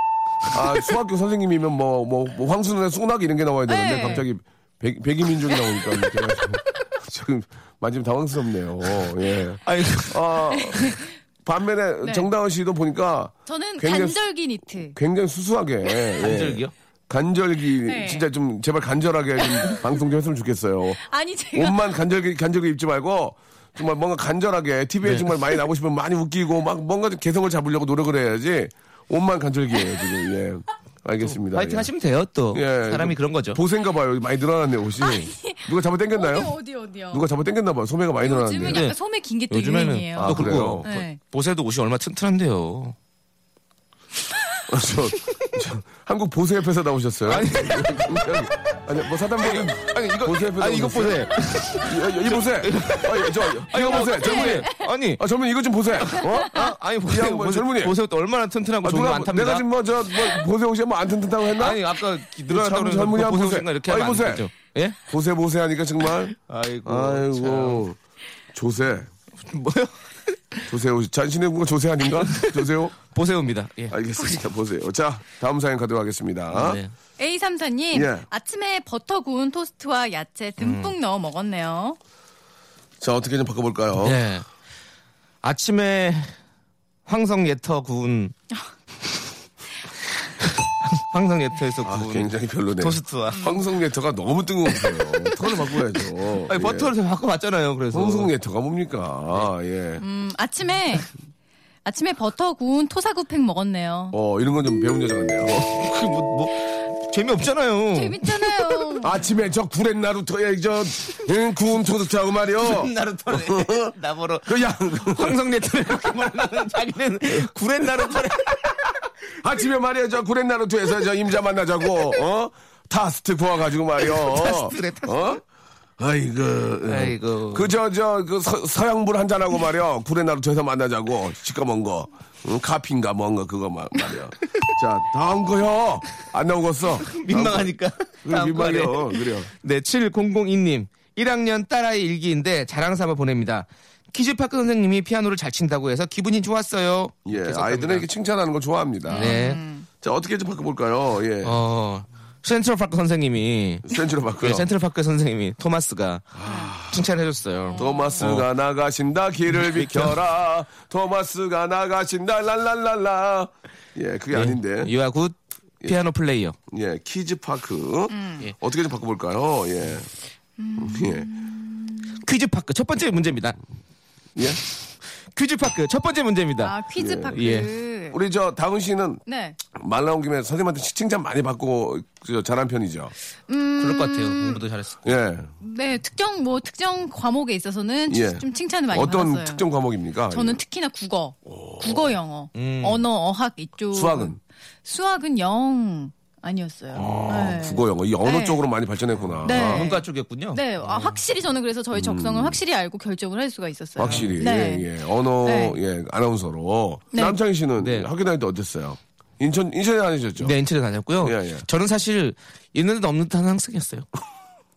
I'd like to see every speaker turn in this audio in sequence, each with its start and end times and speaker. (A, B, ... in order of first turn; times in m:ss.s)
0:00.5-0:14.2 A
0:03.7-0:04.2 B
0:09.6-0:10.2 C
0:10.6-0:11.1 B
0:12.0-0:12.3 B
0:13.4-0:15.0 B
0:14.9-0:21.0 A
0:16.2-0:16.7 C
0:17.8-0:18.2 B
0:19.4-0:19.8 B
0:21.0-0:21.9 B
0:21.5-0:31.9 A
0:25.0-0:25.4 C
0:31.2-0:33.6 C
0:32.5-0:36.5 A
0:35.0-0:37.2 B
0:37.1-0:38.9 A
0:38.2-0:41.2 B
0:38.6-0:39.0 C
0:39.5-0:42.9 C
0:40.2-0:40.9 A
0:44.7-0:58.0 A
0:47.3-0:48.6 C
0:49.4-0:55.2 C
0:54.1-0:54.8 B
0:56.0-0:59.7 C
0:58.8-1:01.8 A
1:01.6-1:05.0 C
1:02.4-1:04.5 A
1:05.1-1:08.0 A
1:06.4-1:07.8 C
1:08.5-1:09.1 A
1:09.5-1:09.9 C
1:10.7-1:12.9 A
1:12.3-1:14.0 C
1:13.9-1:16.8 A
1:16.5-1:16.9 C
1:17.2-1:22.0 B
1:17.9-1:18.3 A
1:20.6-1:20.9 C
1:23.0-1:24.2 A
1:24.0-1:24.4 C
1:25.4-1:26.3 C
1:27.0-1:28.3 C
1:30.4-1:33.5 C
1:31.8-1:36.9 A
1:36.5-1:38.3 C
1:37.9-1:40.0 A
1:40.0-1:41.1 B
1:41.8-1:44.2 B
1:44.1-1:45.7 A
1:45.5-1:48.9 C
1:47.9-1:49.2 B
1:49.0-1:53.9 A
1:52.6-1:58.9 C
1:54.4-1:55.4 A
1:59.4-2:05.4 A
2:04.0-2:05.4 C
2:06.0-2:17.7 A
2:06.8-2:07.7 C
2:17.0-2:28.0 C
2:18.2-2:19.5 A
2:27.2-2:29.3 A
2:29.1-2:29.9 B
2:29.2-2:29.6 C
2:30.0-2:31.6 A
2:31.4-2:33.8 C
2:33.8-2:34.7 A
2:34.4-2:38.5 C
2:36.3-2:37.0 A
2:36.4-2:36.7 B
2:37.7-2:38.2 B
2:37.7-2:44.9 A
2:39.5-2:40.1 C
2:44.3-2:46.6 C
2:46.7-2:50.1 A
2:48.1-2:48.4 B
2:50.6-2:52.2 B
2:50.8-2:51.3 A
2:52.2-2:53.6 C
2:54.4-2:54.6 A
2:55.3-2:56.8 C
2:56.6-2:58.2 B
2:57.0-2:57.4 A
2:57.3-2:57.7 C
2:58.1-3:03.1 A
2:59.2-2:59.6 B
3:03.5-3:04.6 B
3:03.8-3:05.2 C
3:05.0-3:05.5 A
3:05.6-3:09.6 B
3:08.1-3:10.6 A
3:10.3-3:18.6 B
3:11.5-3:12.1 A
3:12.5-3:13.0 C
3:13.9-3:14.4 A
3:16.9-3:19.9 A
3:17.0-3:17.6 C
3:19.4-3:24.9 B
3:19.4-3:21.2 C
3:21.9-3:22.6 A
3:24.0-3:30.5 A
3:24.0-3:24.4 C
3:25.4-3:25.8 B
3:27.1-3:27.4 B
3:27.8-3:28.1 C
3:30.4-3:34.0 C
3:31.2-3:31.6 A